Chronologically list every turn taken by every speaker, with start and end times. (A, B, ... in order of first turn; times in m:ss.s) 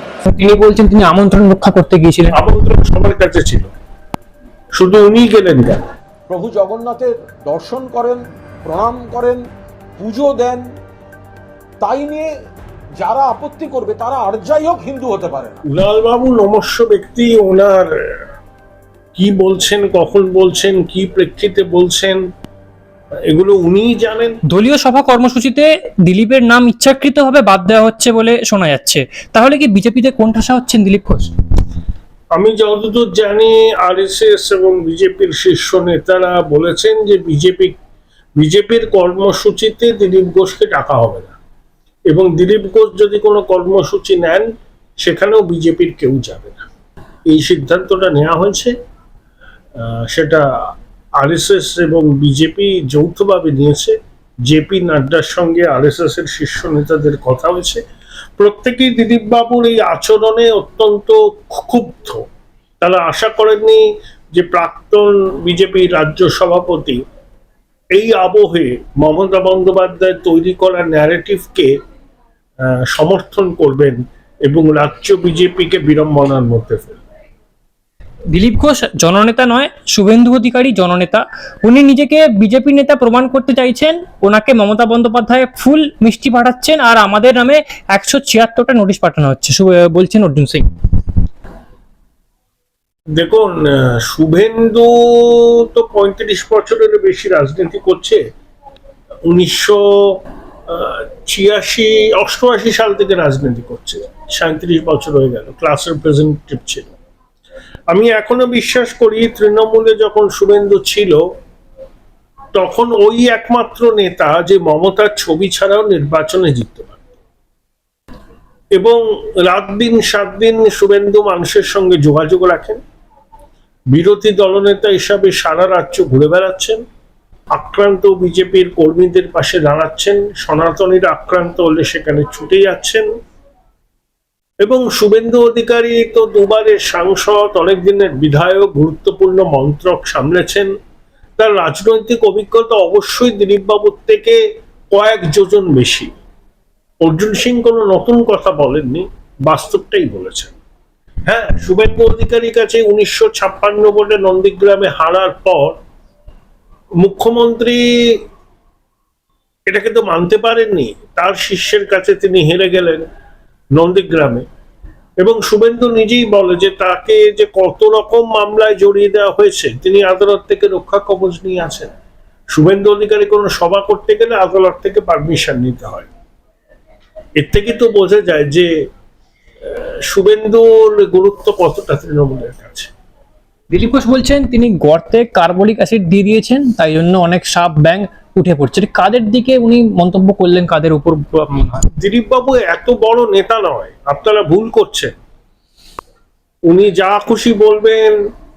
0:00.3-0:02.4 A
0:02.3-0:03.7 B
0:04.8-0:05.9 B
0:06.3-0:09.4 C
0:10.0-0:10.6 C
0:11.8-0:12.3 C
0:13.0-0:15.6 C
0:15.7-0:18.2 B
0:19.2-0:22.2 B
0:23.3-0:24.4 B
0:24.5-0:31.3 A
0:32.4-0:37.7 B
0:38.4-0:41.4 B
0:42.1-0:46.7 B
0:47.3-0:48.7 B
0:49.8-0:50.5 B
0:51.2-0:57.8 B
0:58.4-1:02.2 B
1:02.8-1:07.0 B
1:07.9-1:11.8 B
1:12.6-1:17.0 B
1:18.3-1:30.7 A
1:33.2-1:38.2 B
1:39.3-1:40.2 B
1:40.7-1:46.9 B
1:47.9-1:51.2 B
1:52.6-1:57.0 B
1:58.8-2:02.8 B
2:03.9-2:06.8 B
2:07.5-2:13.1 B
2:14.6-2:20.7 B
2:21.4-2:24.4 B
2:24.9-2:26.2 B
2:27.0-2:30.5 B
2:31.3-2:35.8 B
2:37.0-2:38.2 B
2:39.7-2:43.1 B
2:43.8-2:44.4 B
2:45.2-2:51.9 B
2:52.5-2:56.1 B
2:57.4-2:58.7 B
2:59.7-3:02.9 B
3:03.7-3:11.8 A
3:12.0-3:15.1 B
3:16.7-3:18.2 B